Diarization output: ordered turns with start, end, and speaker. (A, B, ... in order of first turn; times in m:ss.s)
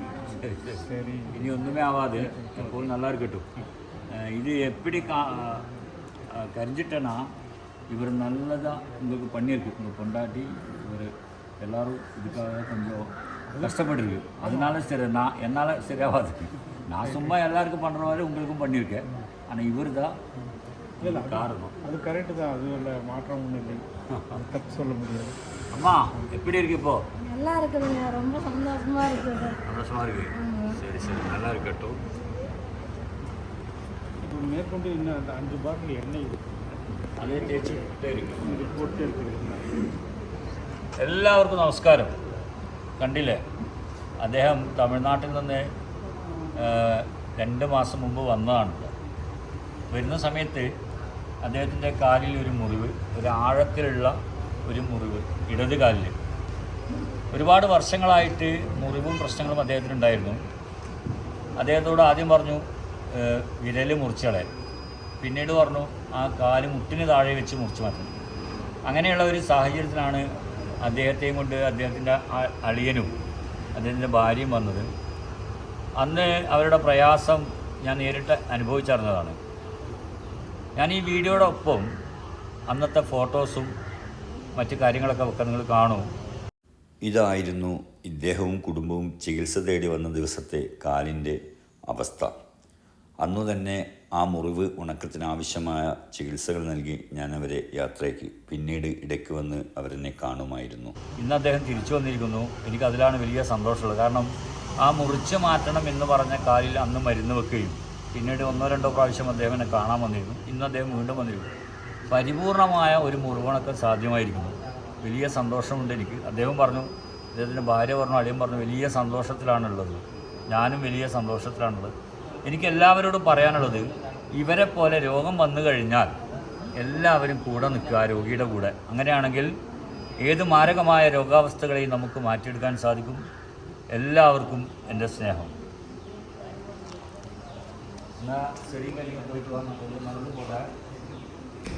0:00.3-0:00.8 A
0:00.8-0:01.6 B
0:01.3-0:03.5 A
0:02.2-0:02.7 B
0:04.1-0:05.6 A
0:06.3-0:07.3 A
0:07.9-0:13.1 A
0:13.5-0:13.9 B
0:13.6-0:20.1 A
0:14.4-0:14.8 B
0:17.0-0:17.4 B
0:21.0-0:21.7 A
0:21.0-0:25.4 B
0:24.1-0:24.4 A
0:25.7-0:27.0 A
0:27.2-0:29.6 C
0:29.7-0:32.0 A
0:30.3-0:30.8 C
0:34.2-0:36.4 B
0:37.2-0:38.4 A
0:37.2-0:37.8 B
0:38.4-0:39.7 B
0:41.0-0:42.1 A
0:43.0-0:43.4 A
0:44.2-0:45.7 A
0:46.6-0:48.9 A
0:49.9-0:50.7 A
0:51.4-0:54.2 A
0:54.7-0:56.1 A
0:57.3-1:00.4 A
1:01.6-1:04.5 A
1:05.2-1:08.1 A
1:08.9-1:10.2 A
1:10.8-1:13.1 A
1:13.8-1:14.9 A
1:16.0-1:19.4 A
1:20.8-1:21.9 A
1:22.7-1:23.7 A
1:24.6-1:26.1 A
1:27.0-1:32.3 D
1:33.2-1:41.0 D
1:41.2-1:51.5 A
1:52.1-2:01.9 A
2:02.5-2:06.2 A
2:06.8-2:09.5 A
2:10.2-2:13.2 A
2:13.9-2:15.5 A
2:18.2-2:20.7 A